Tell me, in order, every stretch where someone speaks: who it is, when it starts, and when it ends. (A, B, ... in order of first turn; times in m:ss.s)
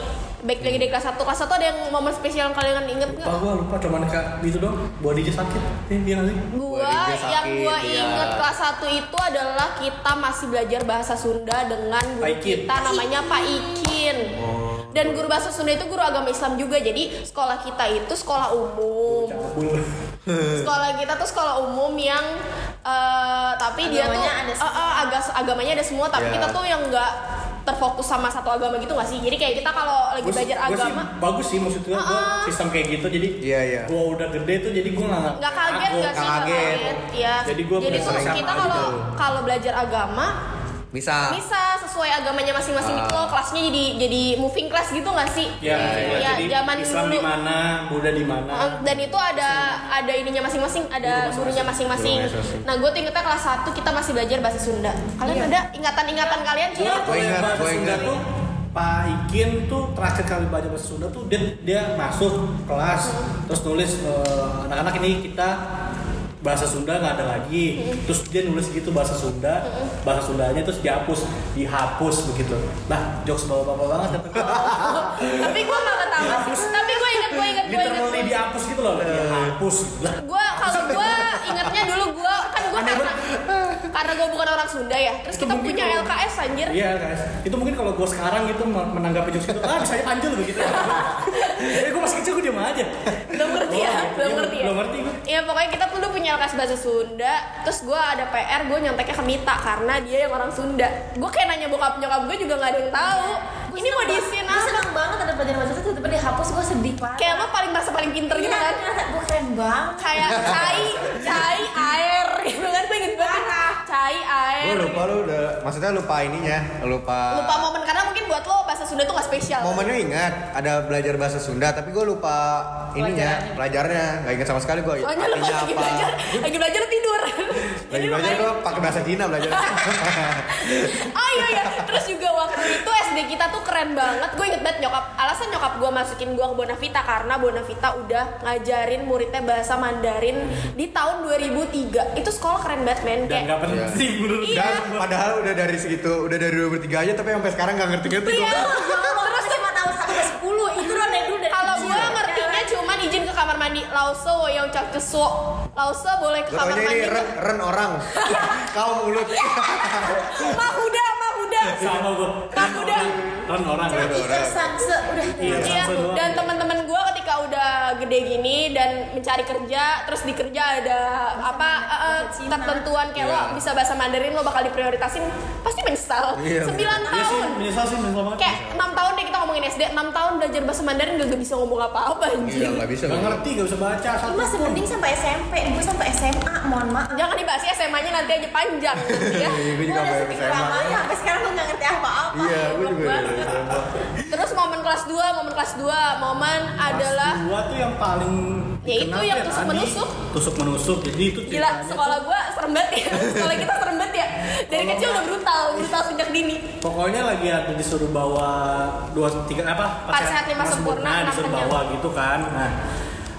0:00.4-0:03.4 A
0:00.6-0:00.9 B
0:03.1-0:06.5 C
0:06.5-0:14.4 A
0:06.7-0:08.5 B
0:12.2-0:12.8 C
0:12.8-0:14.0 D
0:14.3-0:15.3 B
0:14.9-0:19.4 A
0:19.1-0:19.8 C
0:20.3-0:20.7 B
0:20.5-0:22.3 A
0:22.8-0:27.1 A
0:23.8-0:25.1 D
0:26.2-0:26.6 B
0:27.7-0:31.1 A
0:29.5-0:29.8 D
0:30.2-0:39.0 C
0:31.9-0:32.5 A
0:33.4-0:33.9 B
0:35.4-0:40.3 A
0:36.1-0:36.9 B
0:37.8-0:39.1 B
0:40.9-0:41.4 B
0:41.3-0:47.2 A
0:42.8-0:43.4 B
0:45.6-0:48.8 C
0:45.6-0:46.4 B
0:48.5-0:57.8 A
0:48.9-0:49.5 B
0:51.0-0:51.8 C
0:51.9-0:52.7 B
0:55.2-0:55.5 D
0:56.2-0:57.2 D
0:56.8-0:58.2 C
0:57.0-0:58.2 B
0:58.7-1:05.6 C
1:06.4-1:15.3 C
1:09.6-1:09.9 A
1:14.4-1:15.6 B
1:14.4-1:18.4 A
1:16.2-1:21.0 C
1:19.0-1:19.6 B
1:20.2-1:23.2 A
1:20.6-1:21.9 B
1:22.8-1:23.1 C
1:23.2-1:24.0 B
1:23.9-1:26.8 A
1:25.3-1:26.1 C
1:26.7-1:32.9 C
1:30.8-1:31.8 A
1:33.3-1:44.8 A
1:33.6-1:35.2 C
1:43.1-1:47.5 D
1:47.2-1:48.8 A
1:48.3-1:51.2 D
1:50.0-1:55.0 A
1:50.2-1:51.4 B
1:53.2-1:53.7 D
1:54.6-1:57.7 B
1:57.3-1:59.9 A
1:59.6-2:06.4 B
2:03.0-2:03.6 D
2:05.0-2:08.8 A
2:07.9-2:11.8 B
2:09.5-2:23.5 A
2:23.3-2:25.1 C
2:23.6-2:29.0 B
2:24.4-2:24.8 A
2:28.2-2:29.7 A
2:28.3-2:32.7 D
2:31.5-2:37.3 A
2:31.7-2:32.2 B
2:36.5-2:40.7 B
2:38.1-2:38.6 A
2:39.3-2:42.0 A
2:41.8-2:44.2 C
2:42.5-2:43.2 A
2:43.9-2:45.9 D
2:43.9-2:44.6 B
2:45.4-2:46.7 C
2:45.4-2:45.8 B
2:45.6-2:57.6 A
2:51.4-2:52.9 D
2:53.2-2:53.6 B
2:56.4-2:57.1 B
2:57.1-2:58.6 C
2:57.1-2:57.4 D
2:58.4-3:02.8 A
2:58.4-2:59.0 B
3:02.4-3:03.4 B
3:03.1-3:04.9 C
3:04.2-3:07.3 D
3:07.1-3:09.7 A
3:09.0-3:11.0 B
3:09.8-3:13.6 D
3:12.3-3:13.9 B
3:12.7-3:13.5 A
3:14.3-3:17.4 A
3:16.8-3:22.2 C
3:18.8-3:20.1 A
3:21.5-3:26.7 A
3:23.1-3:23.6 B
3:24.7-3:25.9 C
3:26.8-3:32.7 C
3:30.1-3:31.8 A